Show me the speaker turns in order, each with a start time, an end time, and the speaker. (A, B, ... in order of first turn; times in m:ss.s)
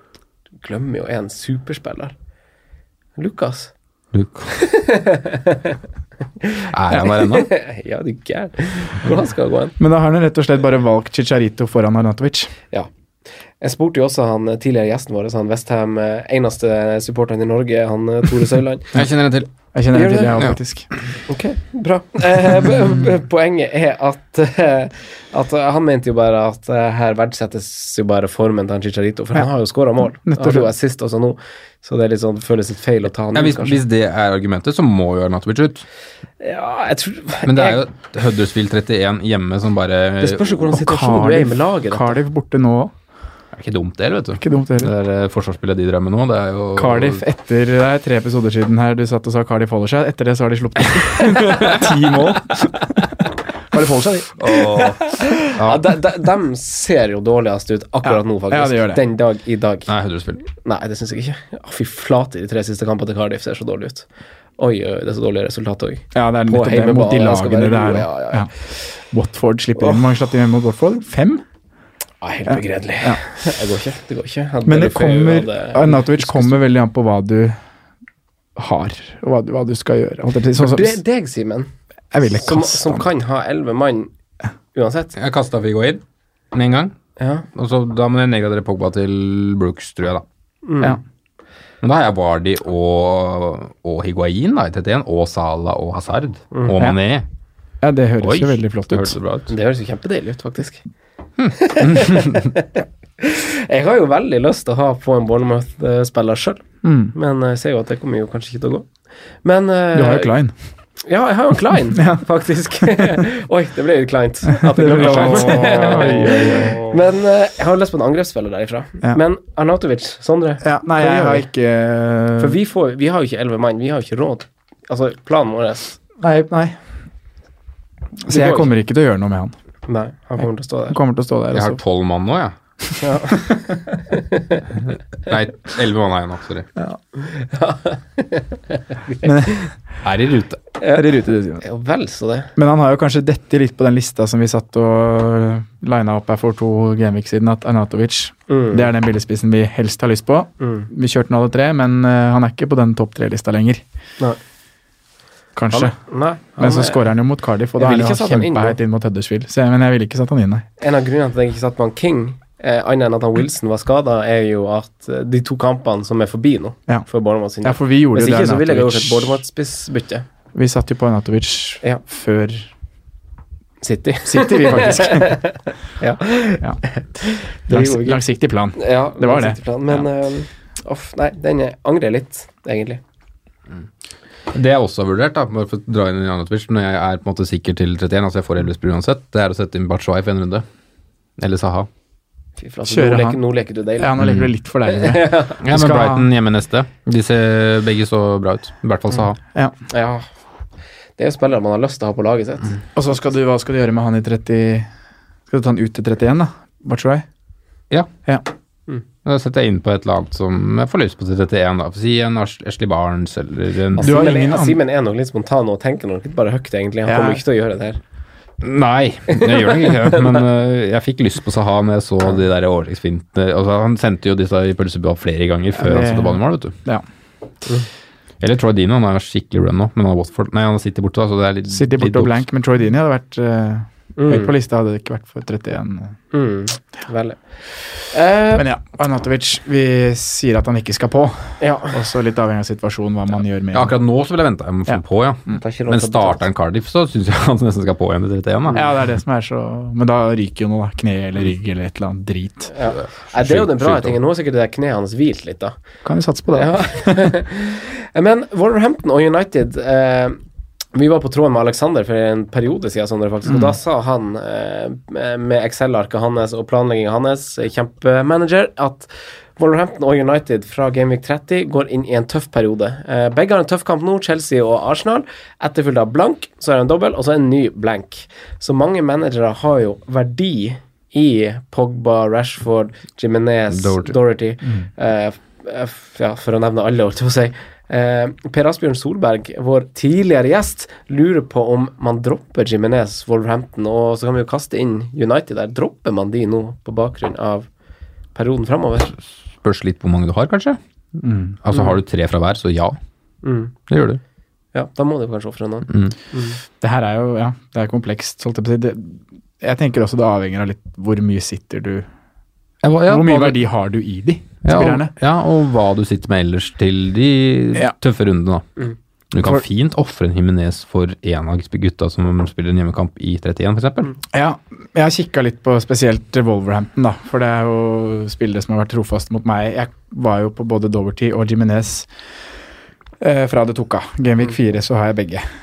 0:00.6-0:02.1 A
0:03.2-0:03.7 A
0:04.1-0:04.6 B
0:04.6-0:05.8 A
0:06.4-0:09.8 A
0:06.7-0:07.5 B
0:09.8-0:12.5 C
0:13.6-0:18.9 A
0:18.9-0:19.5 B
0:19.7-0:20.9 C
0:19.9-0:20.4 A
0:21.3-0:33.8 A
0:30.2-0:30.7 C
0:33.3-0:35.8 B
0:36.4-0:37.8 A
0:37.5-0:40.6 B
0:40.2-0:42.2 A
0:40.7-0:42.9 C
0:43.5-0:47.2 B
0:44.4-0:44.9 C
0:46.8-0:52.9 C
0:53.7-0:54.3 C
0:54.4-0:56.0 B
0:55.1-0:59.9 A
0:58.0-0:59.0 C
0:59.9-1:00.4 B
1:00.5-1:04.1 A
1:04.6-1:08.5 A
1:06.1-1:11.4 C
1:12.2-1:16.6 A
1:12.5-1:13.2 C
1:14.7-1:17.6 C
1:18.6-1:21.0 C
1:20.6-1:21.7 A
1:22.1-1:23.1 C
1:22.3-1:24.1 A
1:24.7-1:25.1 A
1:25.2-1:26.0 B
1:26.5-1:26.9 B
1:27.2-1:27.4 A
1:27.6-1:30.2 B
1:30.7-1:31.0 A
1:31.8-1:37.2 B
1:37.8-1:39.2 C
1:38.2-1:39.5 B
1:39.5-1:40.8 A
1:41.4-1:42.4 B
1:41.6-1:48.9 A
1:46.8-1:47.1 C
1:49.4-1:50.4 A
1:49.9-1:50.5 C
1:51.0-2:01.5 A
1:51.9-1:52.3 C
1:52.8-1:53.2 C
1:54.5-1:56.8 C
1:55.0-1:56.7 B
2:00.6-2:02.6 C
2:02.4-2:06.0 A
2:06.2-2:06.8 C
2:08.2-2:09.6 C
2:08.3-2:08.7 A
2:09.9-2:11.0 A
2:10.9-2:11.8 C
2:11.5-2:12.5 B
2:13.0-2:14.6 A
2:15.2-2:16.7 B
2:17.2-2:19.7 A
2:19.2-2:19.7 C
2:20.0-2:20.6 B
2:20.8-2:21.1 A
2:20.9-2:21.6 C
2:21.6-2:22.5 A
2:22.6-2:33.8 C
2:28.5-2:28.9 A
2:30.6-2:30.9 A
2:35.6-2:40.6 C
2:35.7-2:37.1 A
2:37.8-2:38.8 A
2:40.8-2:50.2 A
2:47.6-2:49.4 C
2:50.5-2:52.7 C
2:53.8-2:58.2 A
2:54.3-2:55.4 C
2:57.7-2:59.6 C
2:58.8-3:03.0 A
3:04.5-3:10.6 B
3:11.4-3:11.9 B
3:12.6-3:14.1 A
3:12.9-3:13.4 C
3:14.0-3:16.3 C
3:14.2-3:14.5 B
3:14.9-3:15.6 A
3:15.6-3:19.4 B
3:19.9-3:20.3 A
3:21.2-3:22.8 A
3:23.0-3:24.9 C
3:25.5-3:27.3 C
3:29.2-3:34.1 B
3:34.0-3:34.8 C
3:34.0-3:38.0 A
3:37.1-3:37.4 C
3:38.6-3:46.7 B
3:39.4-3:40.4 A
3:45.8-3:47.0 C
3:48.4-3:52.4 B
3:51.7-3:56.2 C
3:54.2-3:54.5 A
3:56.3-3:57.4 A
3:58.1-3:58.7 A
3:58.5-4:04.0 C
4:01.6-4:02.0 A
4:03.7-4:08.8 B
4:04.9-4:05.6 C
4:05.5-4:06.4 A
4:08.7-4:12.7 C
4:12.7-4:15.7 A
4:13.0-4:14.2 B
4:16.0-4:17.4 C
4:16.5-4:20.4 A
4:20.9-4:57.7 A
4:43.7-4:44.2 B
4:58.4-4:59.1 A
4:59.6-5:00.8 B
5:01.2-5:01.6 C
5:01.6-5:03.0 B
5:03.4-5:03.7 A
5:03.9-5:04.2 B
5:04.7-5:06.6 A
5:05.9-5:06.1 B
5:06.8-5:12.1 C
5:12.8-5:13.6 B
5:13.1-5:15.1 C
5:14.6-5:18.7 B
5:19.3-5:24.1 B
5:24.3-5:32.1 C
5:33.2-5:35.5 C